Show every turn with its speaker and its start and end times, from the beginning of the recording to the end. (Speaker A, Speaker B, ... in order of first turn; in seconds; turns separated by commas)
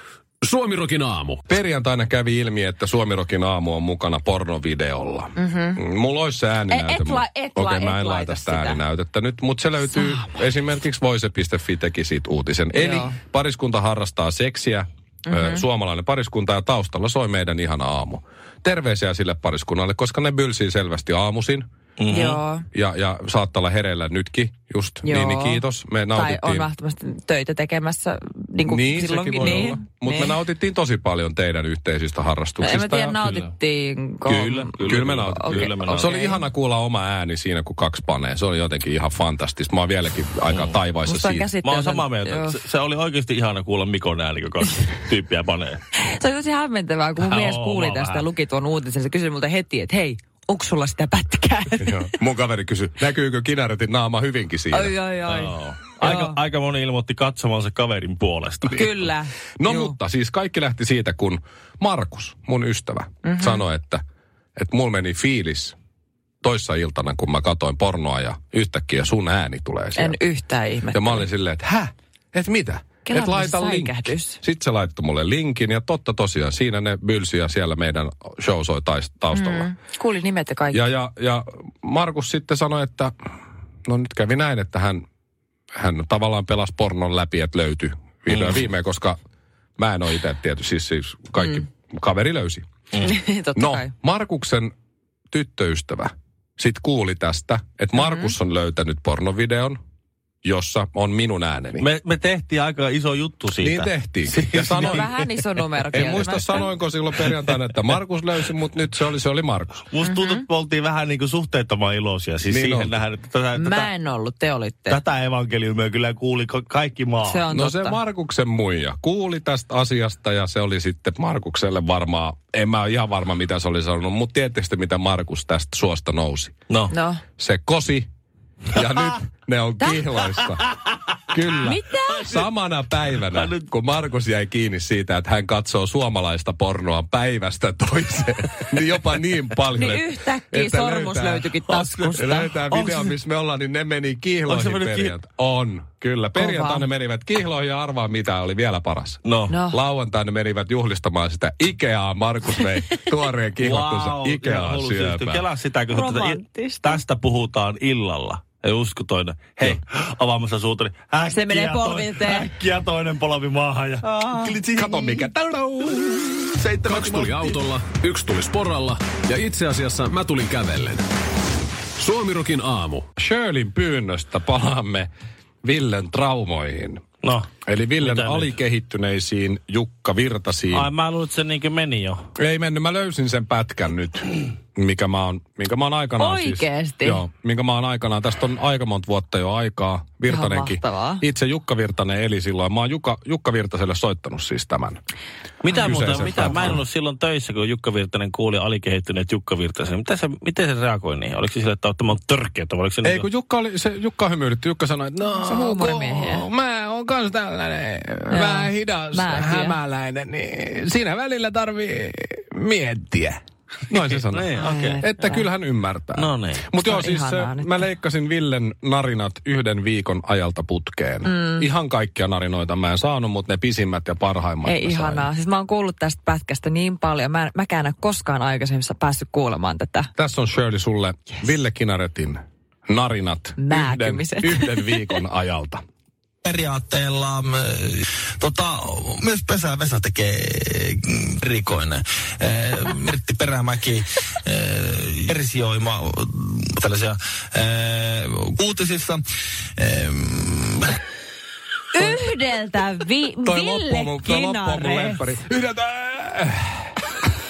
Speaker A: 0.4-1.4, Speaker B: 1.5-21.7, Speaker C: 5.4-5.8, Speaker C: 6.7-8.8, Speaker C: 9.9-10.2, Speaker C: 12.8-13.2, Speaker C: 15.3-15.6, Speaker D: 22.0-22.4, Speaker C: 22.1-22.7, Speaker B: 22.7-26.7, Speaker C: 25.0-30.4, Speaker B: 28.7-33.2, Speaker C: 32.6-36.4, Speaker D: 33.2-33.5, Speaker D: 34.3-36.2, Speaker B: 34.3-41.5, Speaker D: 40.5-40.8, Speaker C: 41.0-42.6, Speaker D: 41.6-45.8, Speaker C: 46.0-52.1, Speaker D: 47.2-48.3, Speaker B: 51.8-54.9, Speaker C: 54.7-56.4, Speaker D: 55.3-58.9, Speaker B: 58.7-64.0, Speaker C: 58.7-60.0, Speaker C: 63.2-63.6, Speaker B: 64.6-65.8, Speaker B: 66.4-70.2, Speaker C: 70.0-71.3, Speaker B: 70.9-79.7, Speaker C: 73.1-74.4, Speaker C: 79.3-80.8, Speaker B: 80.7-83.1, Speaker B: 83.9-85.0, Speaker B: 85.8-89.2, Speaker D: 88.3-88.6, Speaker B: 89.8-92.7, Speaker C: 93.0-93.9, Speaker B: 93.6-94.7, Speaker B: 95.3-99.8, Speaker C: 98.0-98.3, Speaker B: 100.4-101.9, Speaker D: 101.8-105.1, Speaker B: 103.6-105.2, Speaker C: 104.8-106.7, Speaker B: 105.9-109.8, Speaker D: 109.9-113.9, Speaker C: 110.0-110.4, Speaker B: 112.4-113.0, Speaker C: 113.5-115.0, Speaker D: 114.9-117.4, Speaker C: 117.2-118.0, Speaker B: 117.5-126.5, Speaker C: 126.9-127.2, Speaker B: 127.4-128.1, Speaker B: 128.7-130.7, Speaker B: 131.3-141.5, Speaker C: 131.5-132.3, Speaker D: 133.1-133.7, Speaker C: 139.8-142.6, Speaker D: 141.7-143.1, Speaker B: 142.2-155.4, Speaker D: 144.5-145.1, Speaker C: 146.3-146.9, Speaker D: 149.2-149.6, Speaker C: 149.5-149.8, Speaker C: 152.6-153.0, Speaker D: 153.6-164.8, Speaker C: 155.9-157.0, Speaker C: 161.3-162.5, Speaker C: 164.0-165.2, Speaker B: 164.8-166.5, Speaker D: 166.6-167.6, Speaker A: 166.8-171.0, Speaker A: 172.0-173.1, Speaker B: 173.2-175.1, Speaker B: 175.6-177.0, Speaker D: 177.2-177.5, Speaker B: 177.7-180.9, Speaker D: 178.0-178.6, Speaker D: 180.7-182.2, Speaker B: 182.4-195.0, Speaker C: 186.2-187.2, Speaker C: 190.3-191.2, Speaker D: 195.6-203.3, Speaker B: 195.7-196.8, Speaker B: 203.0-211.2, Speaker C: 205.4-206.5, Speaker C: 208.3-209.8, Speaker B: 213.9-225.3, Speaker D: 214.1-215.0, Speaker C: 214.6-215.5, Speaker D: 216.2-216.6, Speaker C: 216.8-217.8, Speaker C: 221.2-221.7, Speaker C: 224.6-230.1, Speaker B: 230.2-235.8, Speaker C: 233.6-235.0, Speaker E: 236.4-249.2, Speaker E: 249.8-250.9, Speaker C: 251.9-255.3, Speaker B: 253.4-256.8